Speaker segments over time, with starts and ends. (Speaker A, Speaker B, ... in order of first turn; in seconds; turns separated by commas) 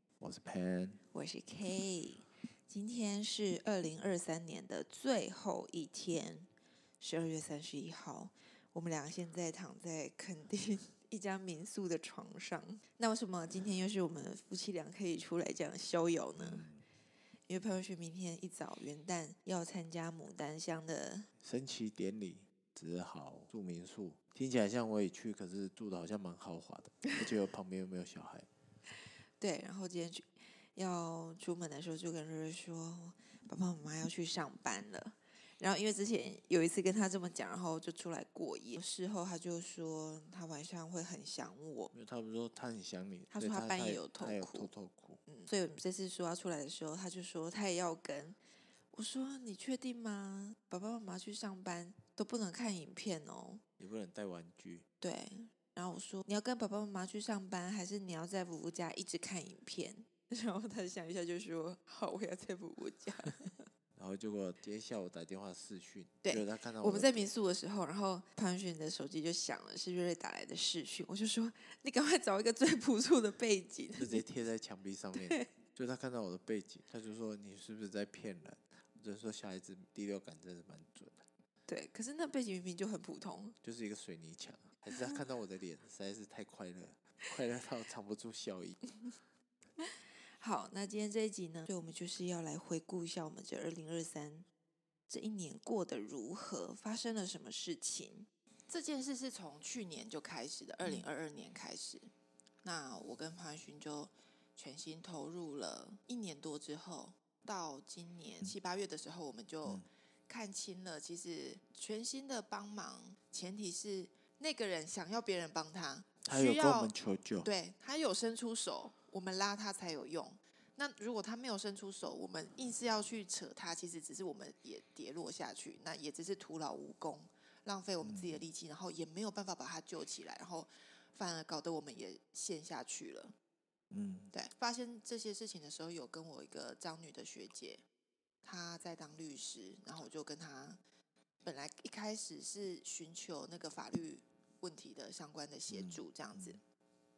Speaker A: 0.2-1.0, Speaker B: 1.1-6.5, Speaker B: 7.0-16.7, Speaker A: 16.4-16.8, Speaker B: 17.5-21.3, Speaker A: 21.4-28.5, Speaker B: 29.4-41.9, Speaker A: 41.9-45.2, Speaker B: 43.3-44.7, Speaker B: 45.3-48.4, Speaker B: 48.9-53.6, Speaker A: 53.8-54.9, Speaker B: 55.0-63.6, Speaker A: 64.0-67.3, Speaker B: 66.2-74.2, Speaker A: 74.0-81.2, Speaker B: 75.2-75.5, Speaker B: 81.7-83.5, Speaker A: 83.6-88.8, Speaker B: 84.9-85.2, Speaker B: 90.4-94.5, Speaker B: 95.1-102.0, Speaker A: 100.8-101.1, Speaker B: 102.6-116.9, Speaker A: 116.2-117.5, Speaker B: 117.4-133.3, Speaker A: 128.0-128.4, Speaker A: 133.9-134.3, Speaker B: 134.3-137.8, Speaker B: 138.4-140.8, Speaker B: 141.4-146.6, Speaker A: 145.7-146.6